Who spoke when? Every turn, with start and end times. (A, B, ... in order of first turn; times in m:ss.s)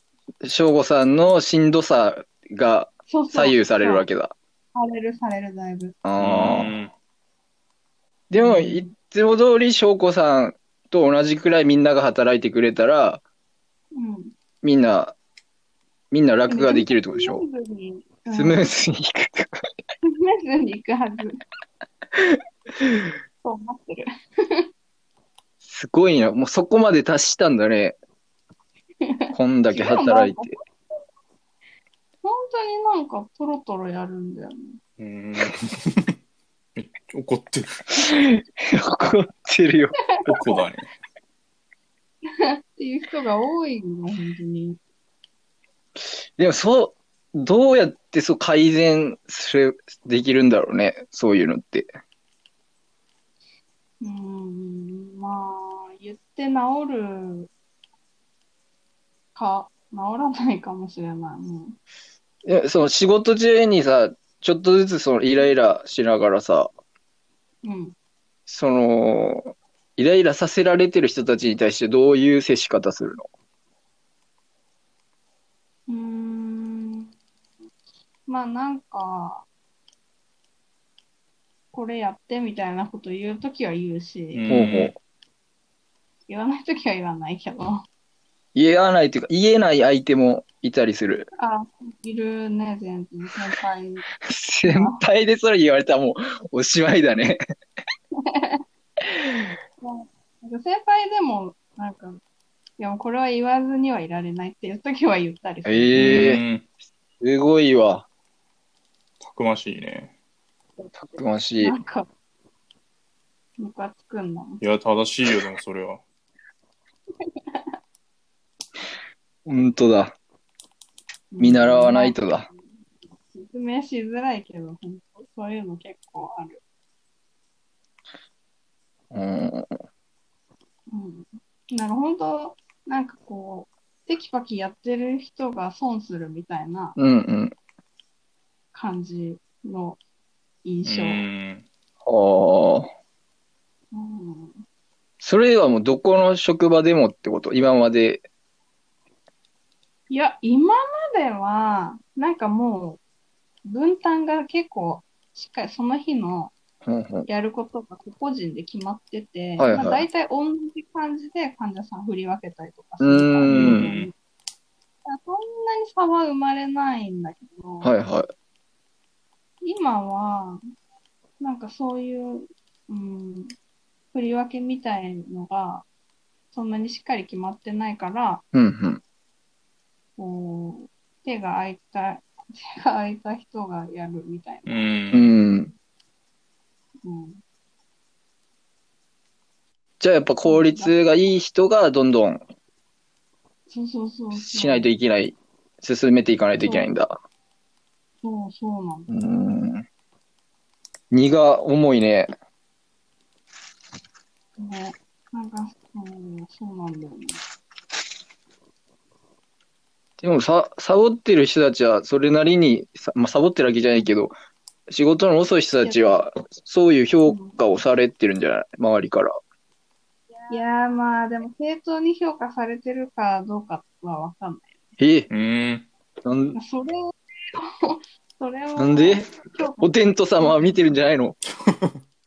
0:00.4-0:04.3 A
0:03.1-0:04.1 B
0:04.7-0:06.0 B
0:06.0-0:06.7 A
0:06.2-0:06.9 C
0:08.3-0:13.2 A
0:08.4-0:08.9 B
0:13.9-0:14.3 B
0:14.6-0:15.1 A
0:16.1-0:17.4 A
0:16.5-0:18.7 B
0:18.3-0:19.7 A
0:20.0-0:21.4 B
0:22.2-0:23.1 A
0:23.4-0:24.6 B
0:25.6-0:28.0 A
0:29.1-0:30.6 B
0:29.3-0:30.5 A
0:32.2-0:34.8 B
0:35.0-0:36.2 C
0:36.8-0:37.8 C
0:38.0-0:40.0 A
0:40.2-0:40.6 B
0:40.2-0:40.9 C
0:42.3-0:44.8 B
0:46.4-0:51.9 A
0:54.0-0:57.5 B
0:59.3-1:01.8 B
1:02.4-1:06.7 A
1:07.6-1:07.9 B
1:08.5-1:13.3 A
1:15.9-1:17.1 B
1:18.3-1:19.4 B
1:21.7-1:24.4 B
1:24.3-1:24.9 C
1:24.5-1:24.9 A
1:26.3-1:27.8 B
1:28.5-1:31.3 A
1:31.4-1:34.0 B
1:34.2-1:37.4 A
1:34.6-1:35.0 B
1:38.2-1:38.6 B
1:39.2-1:42.2 B
1:42.8-1:46.0 B
1:45.6-1:46.4 A
1:45.9-1:46.6 C
1:47.2-1:48.0 A
1:49.2-1:50.1 C
1:50.8-1:52.0 B
1:51.1-1:51.7 A
1:53.6-1:54.6 B
1:54.6-1:56.0 C
1:59.4-2:00.2 A
2:01.3-2:02.5 B
2:01.4-2:02.5 A
2:03.2-2:06.6 B
2:09.1-2:09.8 A
2:10.9-2:17.0 B
2:17.0-2:17.5 A
2:18.7-2:20.0 B
2:20.6-2:21.2 B
2:20.8-2:21.6 C
2:22.0-2:22.9 A
2:23.9-2:24.6 B
2:25.2-2:28.2 A
2:30.1-2:33.0 B
2:33.6-2:36.5 B
2:36.8-2:37.3 A
2:37.3-2:44.1 B
2:39.6-2:40.0 A
2:43.0-2:43.9 A
2:43.5-2:44.1 C
2:45.0-2:47.9 B
2:47.8-2:48.3 A
2:49.6-2:50.6 B
2:51.4-2:53.6 B
2:54.1-2:55.8 B
2:56.5-2:58.4 B
2:58.5-2:59.0 A
3:00.2-3:04.9 B
3:04.7-3:05.3 C
3:05.1-3:05.7 A
3:07.0-3:07.4 B
3:10.0-3:12.4 A
3:10.4-3:10.9 B
3:13.7-3:14.9 B
3:14.3-3:17.2 A
3:16.6-3:17.0 B
3:18.2-3:19.1 B
3:19.1-3:19.8 A
3:21.1-3:22.3 A
3:24.6-3:27.4 B
3:30.2-3:34.3 A
3:34.9-3:39.3 A
3:35.8-3:36.2 B
3:37.2-3:37.6 B
3:40.5-3:44.7 B
3:45.0-3:45.3 A
3:45.3-3:45.9 C
3:46.2-3:46.6 A
3:46.5-3:50.8 B
3:48.8-3:51.4 A
3:51.6-3:51.9 C